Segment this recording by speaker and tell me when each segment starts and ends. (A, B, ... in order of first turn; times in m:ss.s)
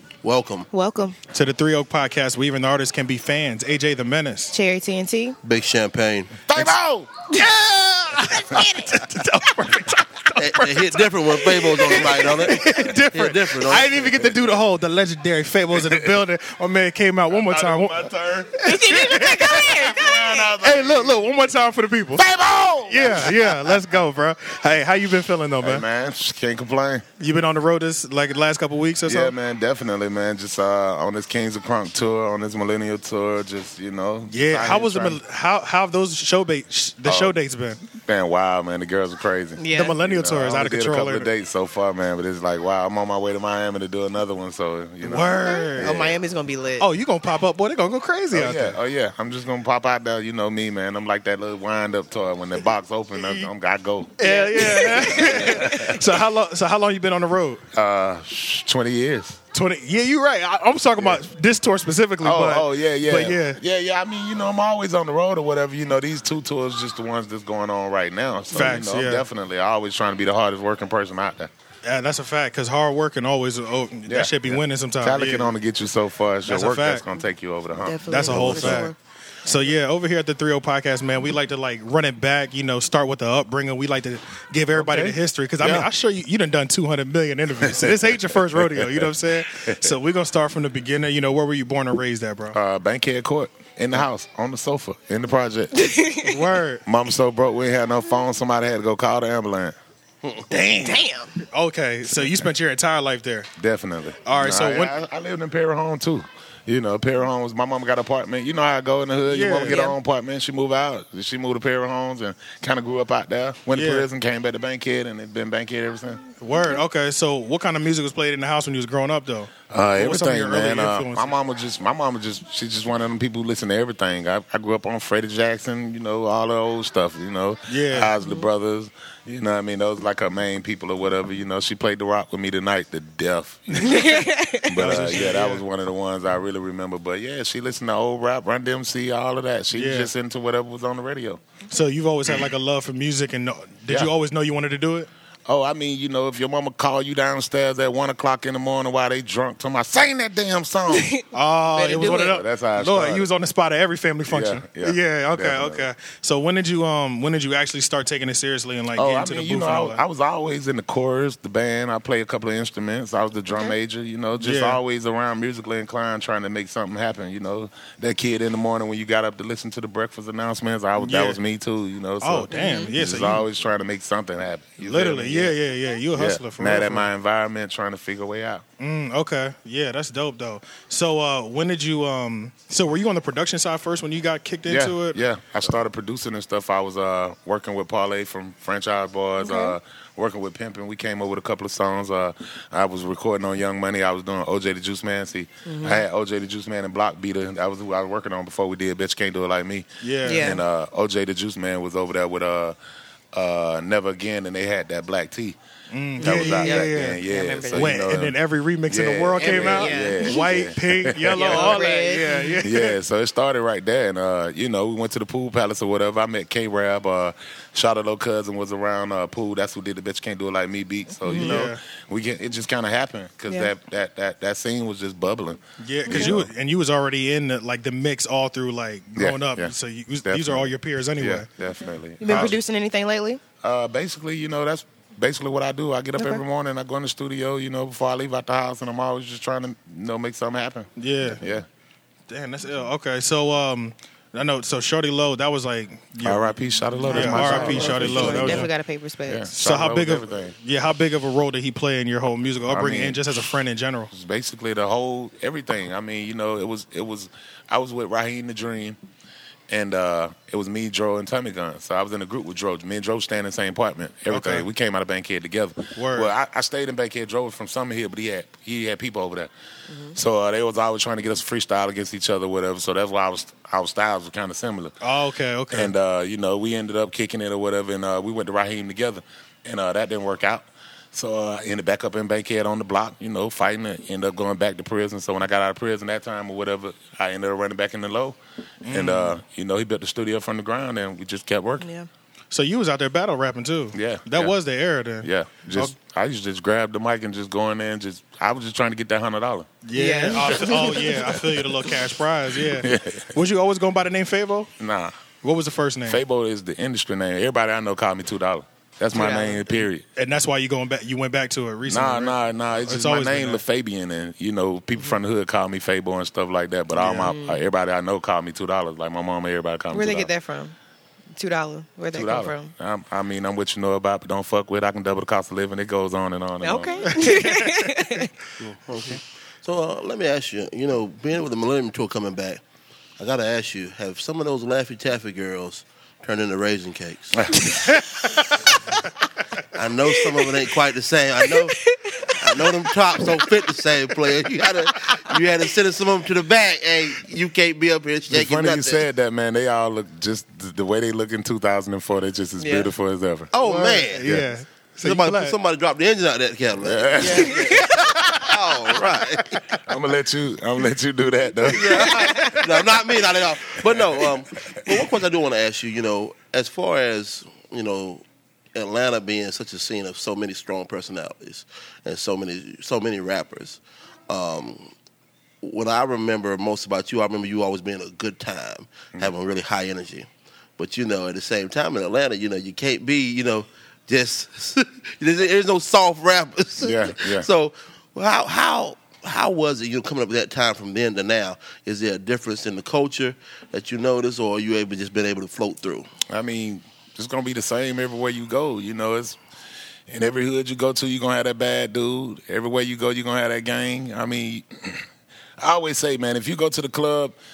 0:00.2-0:00.7 A
0:00.7-0:01.2 B
0:01.3-0:04.5 C
0:04.5-0:05.4 B
0:05.4-0:06.4 A
0:06.5-0:07.4 D
0:07.3-0:07.6 B
0:07.6-0:18.0 C
0:08.2-0:09.0 B
0:10.4-0:14.0 A
0:15.7-0:16.2 D
0:17.3-0:21.2 D
0:18.6-0:19.8 C
0:18.6-0:20.5 B
0:20.6-0:22.2 C
0:22.2-0:23.8 D
0:22.8-0:25.8 C
0:25.6-0:27.0 D
0:27.2-0:29.3 C
0:29.0-0:35.2 D
0:34.3-0:37.8 C
0:37.0-0:37.4 D
0:37.9-0:46.2 D
0:39.6-0:40.0 B
0:39.7-0:41.3 C
0:45.0-0:46.0 C
0:45.4-0:46.9 B
0:46.8-0:48.8 C
0:48.3-0:56.0 D
0:53.2-0:53.5 C
0:54.2-0:57.6 C
0:54.2-0:55.9 B
0:57.7-0:59.4 D
0:59.5-1:03.6 C
1:02.2-1:11.5 D
1:08.5-1:09.2 C
1:11.8-1:15.5 C
1:14.1-1:18.9 D
1:16.4-1:17.0 C
1:17.8-1:18.9 B
1:18.1-1:32.6 C
1:24.7-1:25.9 D
1:27.6-1:29.9 D
1:32.5-1:35.9 D
1:35.7-1:36.5 B
1:36.2-1:36.8 C
1:36.8-1:39.8 D
1:40.5-1:41.3 B
1:41.4-1:43.5 C
1:42.0-1:42.5 D
1:43.6-1:56.2 D
1:44.2-1:44.9 C
1:49.2-1:49.8 C
1:49.6-1:49.9 B
1:53.7-1:54.1 C
1:56.4-2:01.3 C
1:59.7-2:21.4 D
2:07.7-2:08.1 C
2:13.8-2:14.9 B
2:14.8-2:15.6 C
2:19.7-2:20.1 C
2:21.7-2:25.1 C
2:25.5-2:31.1 D
2:30.9-2:32.3 B
2:31.3-2:40.0 C
2:31.9-2:33.3 D
2:34.3-2:35.9 D
2:38.9-2:55.6 D
2:44.4-2:44.8 C
2:51.0-2:51.4 C
2:52.2-2:53.4 C
2:52.5-2:52.9 B
2:54.8-2:57.1 C
2:56.1-2:58.6 D
2:58.8-3:05.2 C
3:04.6-3:22.8 D
3:09.4-3:09.8 B
3:15.6-3:16.0 B
3:20.0-3:20.6 C
3:20.2-3:20.6 B
3:23.3-3:25.6 D
3:25.9-3:27.2 C
3:26.2-3:31.9 D
3:26.2-3:28.0 B
3:27.7-3:33.0 C
3:29.4-3:30.6 B
3:31.3-3:32.6 B
3:32.6-3:46.5 D
3:41.2-3:41.6 B
3:41.3-3:41.8 C
3:45.8-3:51.5 C
3:46.0-3:46.3 B
3:49.1-3:49.7 D
3:50.2-3:52.6 D
3:52.2-3:53.4 B
3:53.6-4:01.6 D
3:56.2-3:56.4 B
4:01.0-4:01.4 C
4:02.3-4:06.5 C
4:06.2-4:08.7 D
4:07.0-4:09.5 B
4:07.1-4:08.7 C
4:09.3-4:10.5 D
4:09.5-4:14.1 C
4:12.7-4:13.6 D
4:14.1-4:19.0 D
4:19.7-4:29.5 D
4:24.3-4:24.7 C
4:26.0-4:26.3 C
4:29.9-4:30.2 B
4:30.1-4:34.9 D
4:35.0-4:35.9 C
4:35.7-4:51.9 D
4:48.8-4:49.4 C
4:51.8-4:52.1 B
4:52.5-4:55.9 C
4:53.9-4:54.5 D
4:55.2-4:59.8 D
4:59.8-5:04.7 C
4:59.9-5:01.2 B
5:00.3-5:01.9 D
5:02.6-5:03.3 D
5:04.8-5:05.2 D
5:05.4-5:06.2 C
5:06.0-5:10.0 D
5:09.1-5:09.7 B
5:10.2-5:13.6 C
5:11.8-5:20.3 D
5:16.9-5:17.3 C
5:17.1-5:17.6 B
5:19.9-5:20.8 B
5:21.3-5:22.7 B
5:22.1-5:27.3 D
5:26.6-5:28.3 B
5:27.0-5:27.9 C
5:28.6-5:32.6 A
5:33.2-5:37.6 A
5:37.3-5:38.6 D
5:39.7-5:49.0 A
5:41.6-5:42.4 B
5:48.3-5:53.5 D
5:52.6-5:52.9 B
5:53.5-5:54.3 A
5:53.6-5:55.6 C
5:54.2-5:54.5 D
5:55.0-5:59.8 A
5:56.8-5:58.6 D
5:57.3-5:58.4 B
5:59.7-6:02.6 D
6:01.6-6:08.2 A
6:01.9-6:02.6 B
6:03.8-6:05.1 D
6:08.7-6:14.9 A
6:15.6-6:36.1 A
6:26.8-6:27.5 D
6:36.3-6:39.4 D
6:40.1-6:45.1 D
6:45.6-6:47.4 D